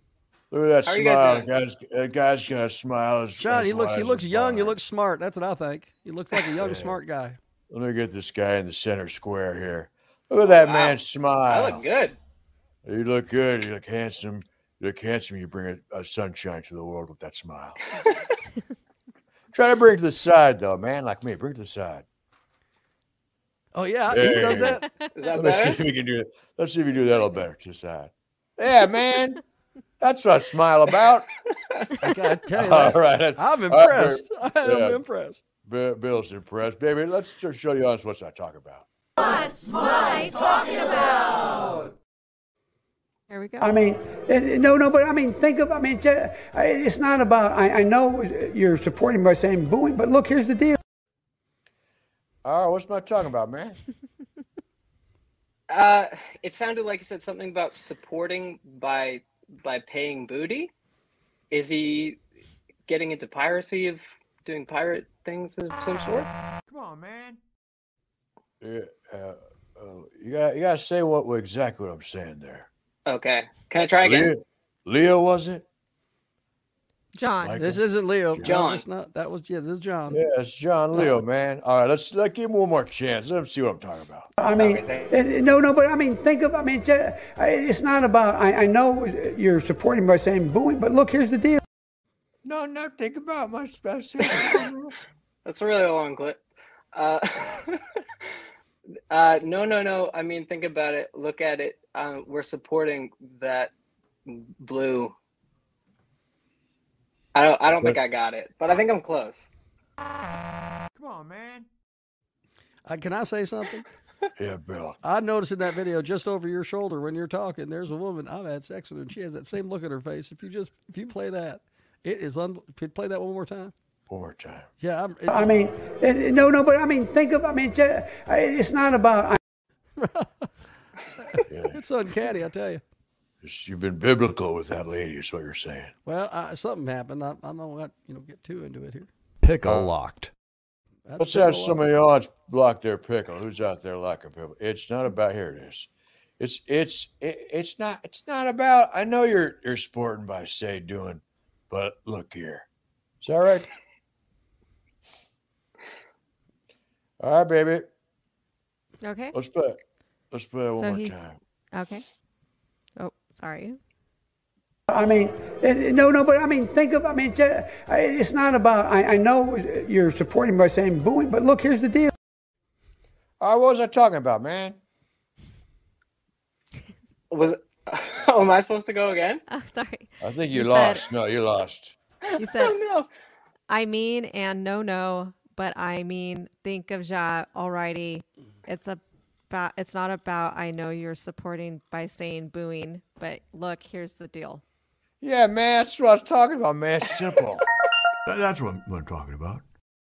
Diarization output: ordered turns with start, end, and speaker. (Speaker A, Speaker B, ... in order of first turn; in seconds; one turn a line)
Speaker A: 0.5-4.8
Speaker B: 0.8-1.5
Speaker C: 3.4-7.4
Speaker A: 6.5-7.0
Speaker A: 7.7-11.8
Speaker B: 10.4-12.2
Speaker A: 12.8-17.8
Speaker A: 19.5-22.1
Speaker C: 23.7-24.9
Speaker A: 24.1-24.8
Speaker B: 25.1-25.8
Speaker A: 25.3-29.4
Speaker A: 30.0-31.3
Speaker C: 32.0-35.4
Speaker A: 32.5-35.0
Speaker A: 35.6-38.9
Speaker D: 40.0-41.3
Speaker D: 43.3-43.7
Speaker E: 43.6-50.8
Speaker A: 52.4-53.8
Speaker B: 55.7-60.7
Speaker B: 61.5-62.2
Speaker B: 62.9-66.3
Speaker A: 66.7-67.4
Speaker A: 68.6-72.7
Speaker B: 73.0-74.3
Speaker A: 74.0-75.7
Speaker D: 77.1-77.7
Speaker A: 77.4-78.6
Speaker C: 77.6-80.2
Speaker B: 78.4-78.8
Speaker A: 80.1-84.3
Speaker E: 84.4-91.6
Speaker B: 84.5-85.1
Speaker A: 92.4-94.9
Speaker B: 95.4-96.4
Speaker B: 96.9-97.8
Speaker B: 99.1-103.7
Speaker B: 104.2-105.1
Speaker B: 107.3-109.5
Speaker A: 110.9-111.7
Speaker C: 112.9-113.8
Speaker A: 114.3-115.0
Speaker C: 115.0-123.7
Speaker A: 124.1-124.7
Speaker C: 124.8-125.5
Speaker E: 125.3-129.4
Speaker C: 130.0-130.5
Speaker C: 131.2-132.8
Speaker A: 131.5-131.8
Speaker A: 133.4-135.9
Speaker C: 136.0-139.1
Speaker A: 139.6-139.9
Speaker C: 141.1-141.9
Speaker A: 141.2-152.7
Speaker A: 153.2-153.7
Speaker A: 157.2-157.9
Speaker D: 159.0-159.3
Speaker A: 159.3-159.8
Speaker A: 160.3-161.4
Speaker D: 160.8-162.0
Speaker D: 163.0-163.8
Speaker E: 164.9-172.1
Speaker A: 173.4-174.8
Speaker B: 177.3-179.4
Speaker D: 179.5-181.0
Speaker A: 180.2-181.9
Speaker B: 182.3-183.1
Speaker D: 182.4-182.8
Speaker D: 183.7-194.6
Speaker A: 195.2-197.7
Speaker A: 198.2-199.6